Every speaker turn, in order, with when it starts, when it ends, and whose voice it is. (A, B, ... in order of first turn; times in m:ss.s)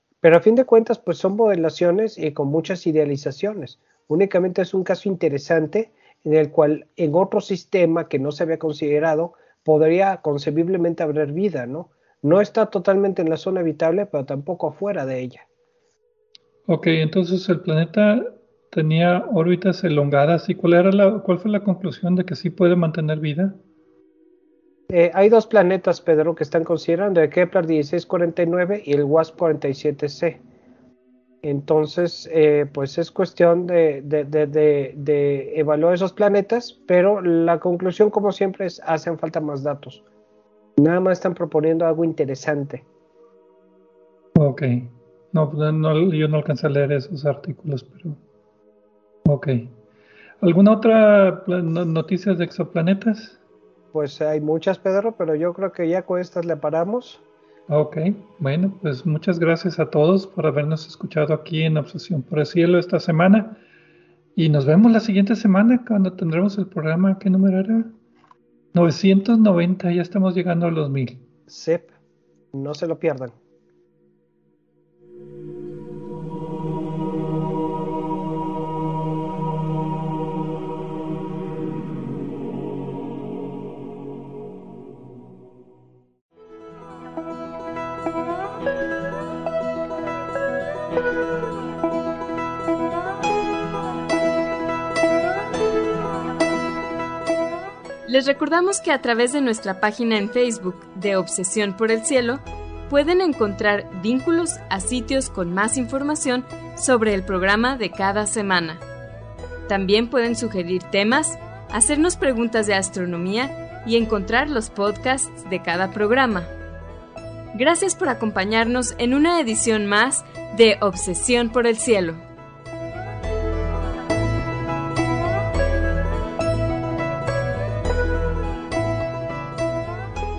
0:00.2-0:15.5 A
0:16.7-0:23.6 B
0:24.9-0:30.4 A
0:31.4-0:40.0 A
0:40.8-0:42.8 A
0:44.4-0:48.2 B
0:49.2-0:49.8 B
0:50.4-0:53.4 B
0:53.9-0:57.2 A
0:57.7-1:03.6 B
1:04.4-1:07.9 B
1:08.7-1:11.2 B
1:11.5-1:11.9 A
1:12.5-1:13.4 A
1:38.1-1:48.8 C
1:49.7-1:56.5 C
1:57.5-2:02.2 C